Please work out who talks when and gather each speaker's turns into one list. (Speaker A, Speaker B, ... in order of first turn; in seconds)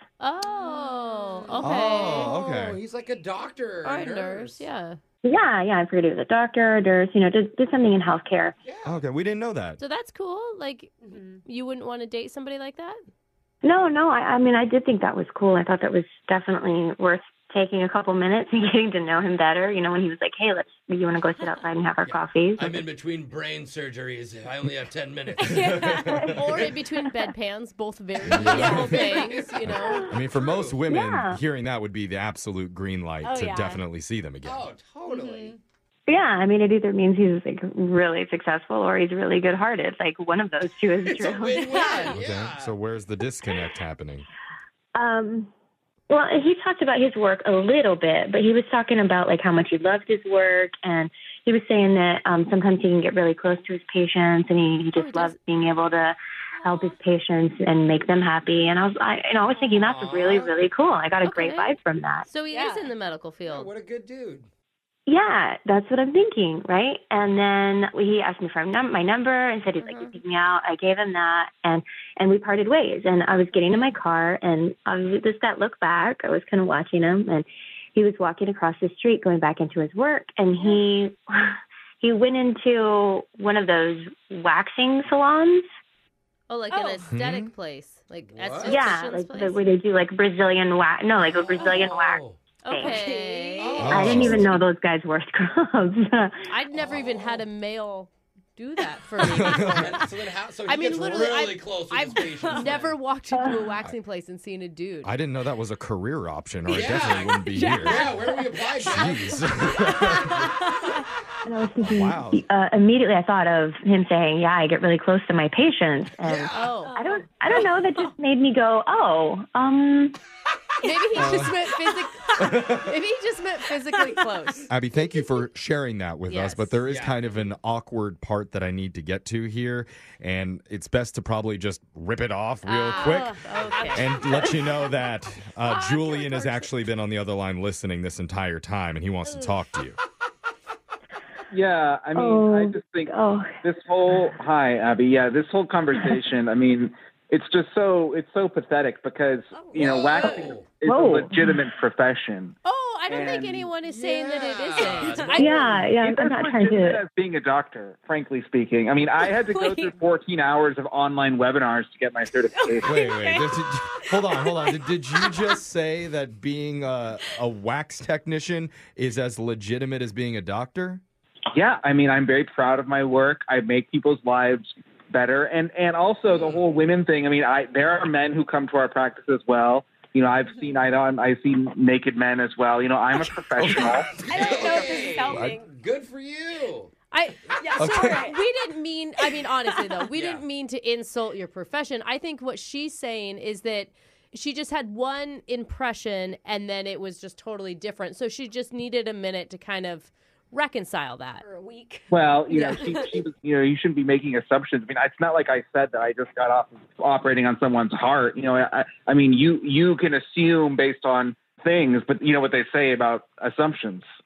Speaker A: 0.2-2.4, 3.8-5.0, 9.8-13.0, 26.3-30.1, 54.9-55.4, 61.2-63.7, 69.8-70.2, 86.5-89.7, 92.6-94.3, 96.5-100.0, 100.7-105.1, 116.5-117.0, 120.8-124.7, 126.3-126.8, 132.9-134.1, 152.6-155.9, 187.1-201.4, 202.5-202.8
Speaker B: 0.5-2.4, 11.0-11.4, 25.4-26.3, 28.4-29.4, 33.2-33.9, 35.1-35.6, 41.5-42.0, 59.5-59.8, 62.5-62.9, 80.6-80.8, 86.7-87.1, 92.7-94.4, 102.4-102.7, 107.3-108.6, 109.7-110.9, 116.7-118.1, 120.8-122.5, 123.9-124.2, 132.7-134.6, 135.7-136.7, 139.3-139.5, 149.5-149.9, 159.2-159.9, 162.5-165.5, 184.3-185.7, 187.6-188.4, 201.4-203.2
Speaker C: 1.6-2.8, 8.8-9.8, 25.6-26.2, 28.2-34.7, 42.0-44.3, 87.1-87.5, 93.8-94.5, 99.2-100.0, 105.0-108.2, 108.8-110.5, 111.8-112.5, 121.1-121.5, 122.4-122.9, 124.7-133.4, 133.9-140.0, 162.8-171.0, 183.5-185.6, 187.8-188.2
Speaker D: 2.2-4.7, 8.6-9.0, 22.0-26.0, 28.3-30.8, 34.4-35.6, 41.0-42.7, 59.8-60.6, 63.5-64.5, 88.3-88.9, 91.2-92.4, 93.6-94.4, 99.5-103.0, 106.7-109.4, 116.2-116.8, 126.9-127.2, 149.8-150.8, 153.8-155.6, 176.3-176.7, 184.2-186.9, 190.1-190.4
Speaker E: 5.2-8.6, 13.6-22.8, 26.0-27.1, 30.9-31.4, 36.1-42.2, 45.0-45.5, 46.1-62.3, 65.1-85.6, 88.7-93.0, 93.8-96.4, 103.4-103.7, 111.5-120.2, 142.2-143.6, 150.2-151.7, 155.4-157.0
Speaker F: 141.5-152.6, 153.1-153.7, 155.8-163.0, 171.5-184.2, 202.1-214.1